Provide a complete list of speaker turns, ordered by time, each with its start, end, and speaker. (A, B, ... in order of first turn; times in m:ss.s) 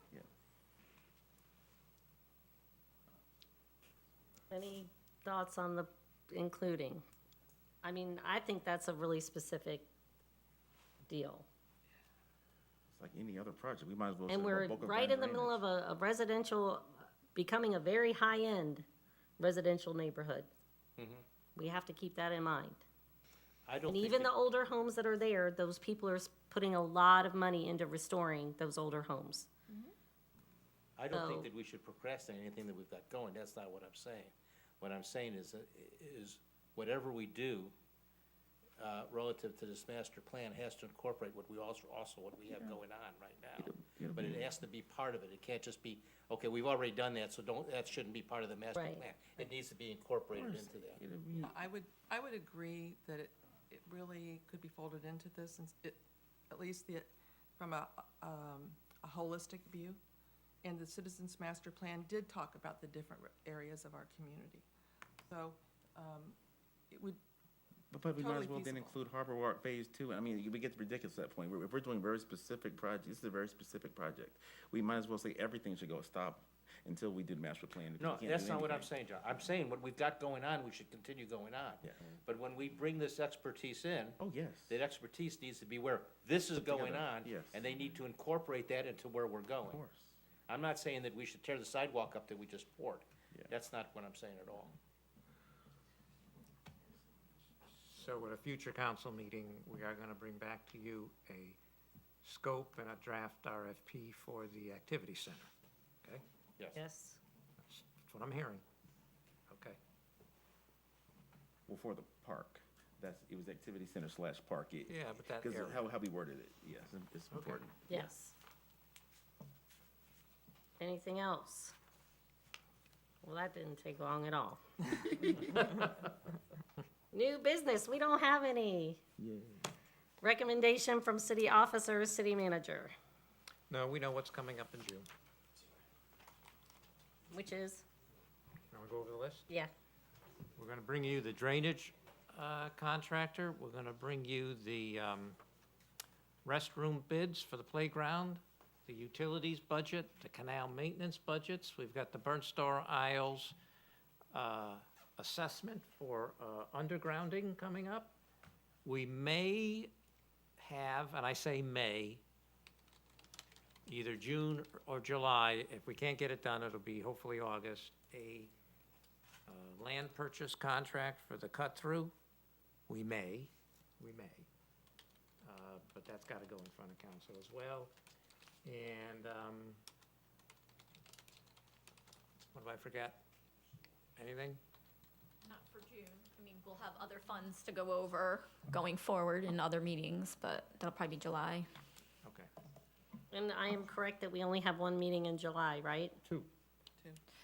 0:04.5-0:07.0 A
0:07.8-0:09.9 A
0:11.1-0:11.5 A
0:12.9-0:15.6 B
0:14.3-0:18.9 A
0:19.4-0:20.5 A
0:21.0-0:21.2 C
0:21.6-0:22.8 A
0:23.7-0:24.3 C
0:23.8-0:29.5 A
0:31.0-0:37.8 C
0:31.1-0:31.5 A
0:38.8-0:51.0 C
0:42.5-0:42.8 B
0:43.6-0:44.5 B
0:48.7-0:49.0 A
0:50.4-0:51.6 B
0:51.4-1:00.0 D
1:00.6-1:04.7 D
1:05.3-1:06.4 D
1:06.9-1:07.2 D
1:07.9-1:18.9 B
1:08.2-1:09.0 D
1:18.0-1:29.8 C
1:24.2-1:24.8 B
1:26.6-1:27.8 B
1:29.7-1:30.2 B
1:30.5-1:34.8 C
1:37.7-1:41.6 E
1:42.2-1:45.5 E
1:46.8-1:47.2 A
1:47.7-1:48.6 E
1:49.5-1:49.8 E
1:51.7-1:57.8 B
1:54.9-1:55.8 E
1:57.3-1:58.1 E
1:57.9-1:58.3 A
2:00.8-2:01.8 A
2:03.2-2:05.5 A
2:07.1-2:09.0 A
2:10.2-2:12.9 A
2:13.7-2:15.1 E
2:17.3-2:17.8 A
2:18.7-2:19.5 E
2:20.6-2:25.4 E
2:26.4-2:33.6 E
2:34.3-2:38.2 E
2:38.8-2:39.9 E
2:40.6-2:42.2 E
2:43.9-2:48.5 E
2:49.5-2:52.2 E
2:52.9-2:54.5 E
2:55.4-2:57.9 E
2:58.6-2:59.8 E
3:02.5-3:03.2 E
3:04.2-3:04.6 E
3:05.4-3:11.7 F
3:12.2-3:12.5 E
3:13.3-3:16.2 A